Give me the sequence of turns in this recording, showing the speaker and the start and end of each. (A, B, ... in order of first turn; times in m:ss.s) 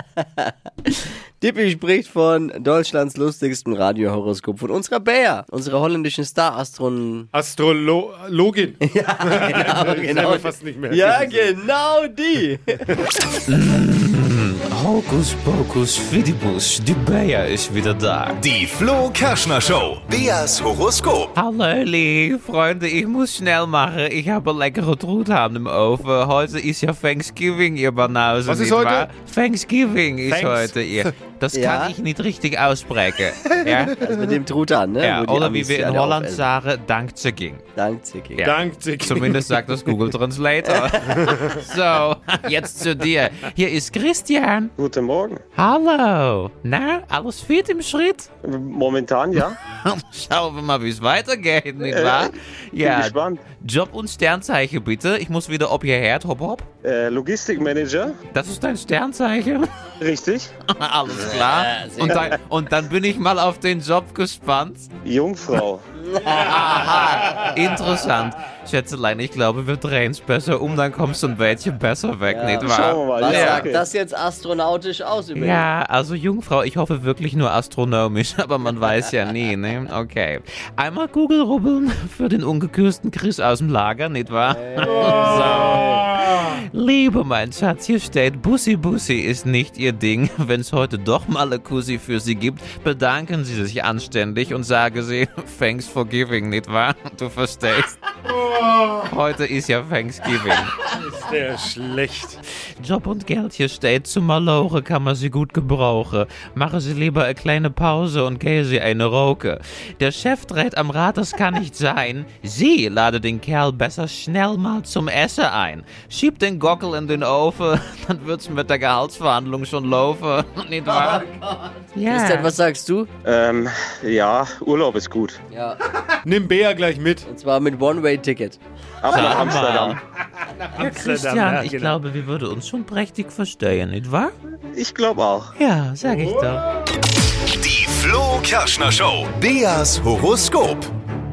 0:00.2-0:07.3 A
0:07.3-0:11.5 B
0:08.8-0:12.7 A
0:13.5-0:18.4 C
0:18.4-0:21.3 D
0:21.3-0:34.0 C
0:28.4-0:29.1 B
0:30.2-0:31.1 B
0:31.5-0:32.0 A
0:34.0-0:36.4 A
0:35.0-0:37.6 C
0:37.8-0:38.5 A
0:38.3-0:44.7 C
0:38.4-0:40.1 B
0:40.6-0:41.2 A
0:41.1-0:41.6 B
0:44.8-0:45.4 E
0:45.6-0:48.3 C
0:48.4-0:49.6 E
0:49.3-0:56.6 C
0:51.8-0:53.4 E
0:56.8-0:58.2 E
0:58.3-0:59.7 C
1:00.0-1:00.5 E
1:00.7-1:04.9 C
1:01.7-1:02.3 A
1:05.0-1:05.8 E
1:06.1-1:07.0 A
1:06.2-1:13.7 C
1:12.3-1:15.7 A
1:12.6-1:13.8 E
1:15.3-1:38.0 C
1:24.4-1:26.1 A
1:25.0-1:25.5 B
1:38.4-1:39.0 B
1:38.9-1:40.7 C
1:40.8-1:42.4 B
1:42.8-2:01.2 C
2:00.8-2:03.1 A
2:01.9-2:02.5 C
2:03.2-2:05.4 E
2:05.5-2:05.8 A
2:06.2-2:07.3 B
2:07.2-2:08.6 A
2:09.0-2:10.0 E
2:09.1-2:10.0 C
2:10.7-2:12.0 B
2:10.8-2:14.3 C
2:14.7-2:15.5 E
2:15.6-2:16.7 C
2:17.5-2:20.9 D